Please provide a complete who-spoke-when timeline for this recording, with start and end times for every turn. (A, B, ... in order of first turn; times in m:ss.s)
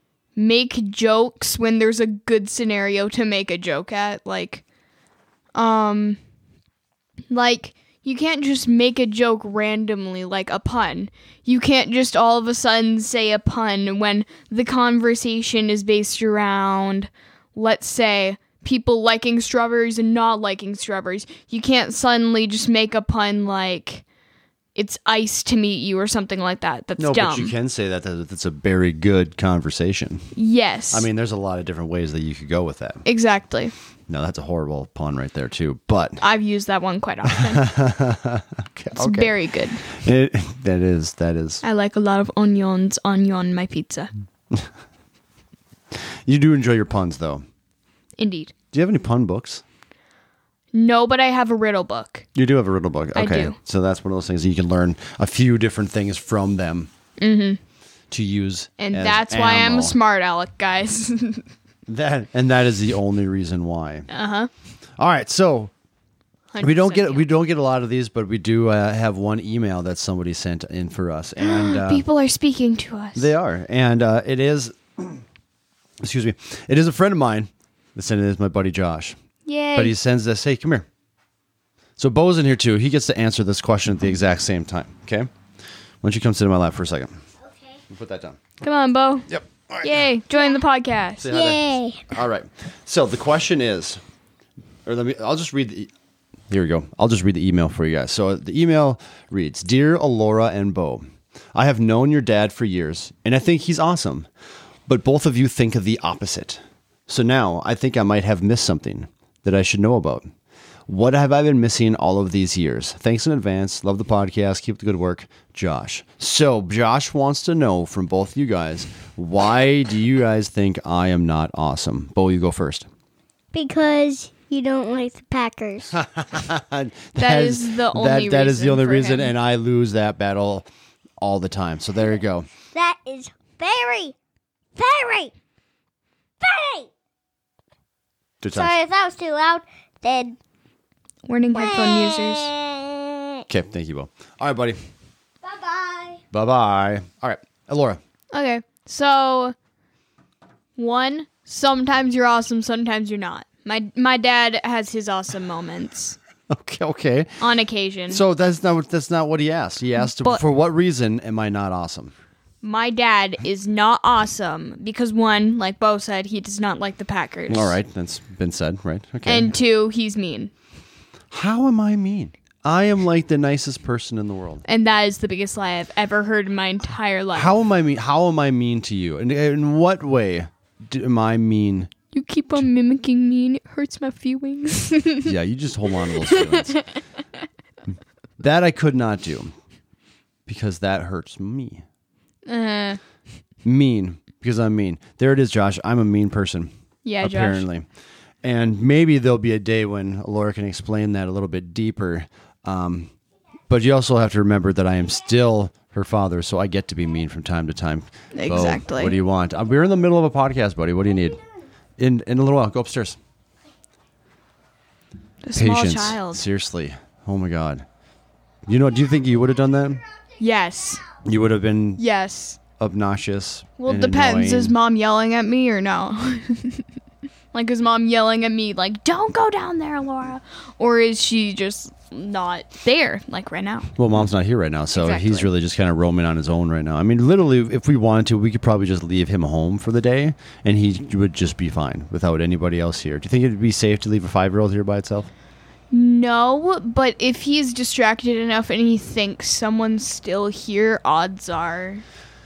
0:00.4-0:04.6 A
0:05.6-0:06.2 A
0:07.3-0:24.0 A
0:24.8-0:27.5 A
0:27.0-0:30.3 B
0:30.4-0:31.1 A
0:30.9-0:33.0 B
0:33.0-0:33.7 A
0:34.1-0:36.2 B
0:36.2-0:37.6 A
0:37.3-0:41.6 B
0:39.0-0:39.8 A
0:41.6-0:44.1 A
0:45.9-0:47.4 B
0:48.2-0:48.5 A
0:48.7-0:49.6 B
0:50.7-0:52.3 A
0:52.4-0:56.9 B
0:53.2-0:53.6 A
0:57.2-0:57.6 A
0:58.1-1:00.0 B
0:58.8-1:01.5 A
1:01.9-1:04.1 B
1:04.1-1:04.5 A
1:05.0-1:05.7 B
1:06.5-1:07.2 A
1:06.6-1:12.1 B
1:11.4-1:13.3 A
1:13.2-1:15.2 B
1:16.0-1:19.2 B
1:19.4-1:20.0 A
1:19.8-1:20.9 B
1:22.0-1:25.3 B
1:26.0-1:27.2 B
1:27.9-1:28.4 B
1:28.6-1:29.3 A
1:29.3-1:30.1 B
1:29.8-1:31.3 A
1:31.2-1:34.0 B
1:31.3-1:32.1 C
1:34.8-1:35.9 B
1:36.5-1:44.3 B
1:44.9-1:50.3 B
1:50.9-2:02.9 B
2:03.5-2:06.0 C
2:05.9-2:10.7 B
2:07.2-2:09.3 A
2:11.2-2:12.5 B
2:12.7-2:14.2 C
2:14.8-2:15.3 C
2:16.4-2:16.9 C
2:18.4-2:18.8 B
2:18.5-2:20.4 C
2:21.3-2:22.5 A
2:21.5-2:23.4 C
2:23.5-2:24.8 B
2:25.4-2:26.2 C
2:26.3-2:28.0 B
2:28.3-2:29.5 A
2:30.8-2:36.2 A
2:36.5-2:37.4 B
2:37.4-2:38.2 A
2:38.1-2:42.1 B
2:40.0-2:40.4 A
2:42.6-2:47.8 A
2:47.5-2:49.5 B
2:49.2-2:50.5 A
2:51.3-2:54.6 B
2:54.7-2:57.5 A
2:57.3-3:01.9 B
3:02.1-3:05.3 A
3:05.2-3:06.8 B
3:06.1-3:07.0 A
3:08.4-3:09.5 B
3:10.5-3:11.8 B
3:12.5-3:13.0 A
3:13.6-3:17.9 B
3:17.0-3:17.6 A
3:18.4-3:23.1 B
3:23.7-3:31.4 B
3:28.3-3:29.2 A
3:32.0-3:33.2 B
3:35.4-3:36.4 A
3:35.6-3:37.8 B
3:38.7-3:40.0 B
3:40.4-3:41.0 A
3:41.2-3:42.0 B
3:42.0-3:42.6 A
3:42.8-3:44.8 B
3:43.8-3:46.8 A
3:47.5-3:53.9 A
3:54.0-4:05.3 B
3:54.9-3:55.5 A
4:05.9-4:12.0 A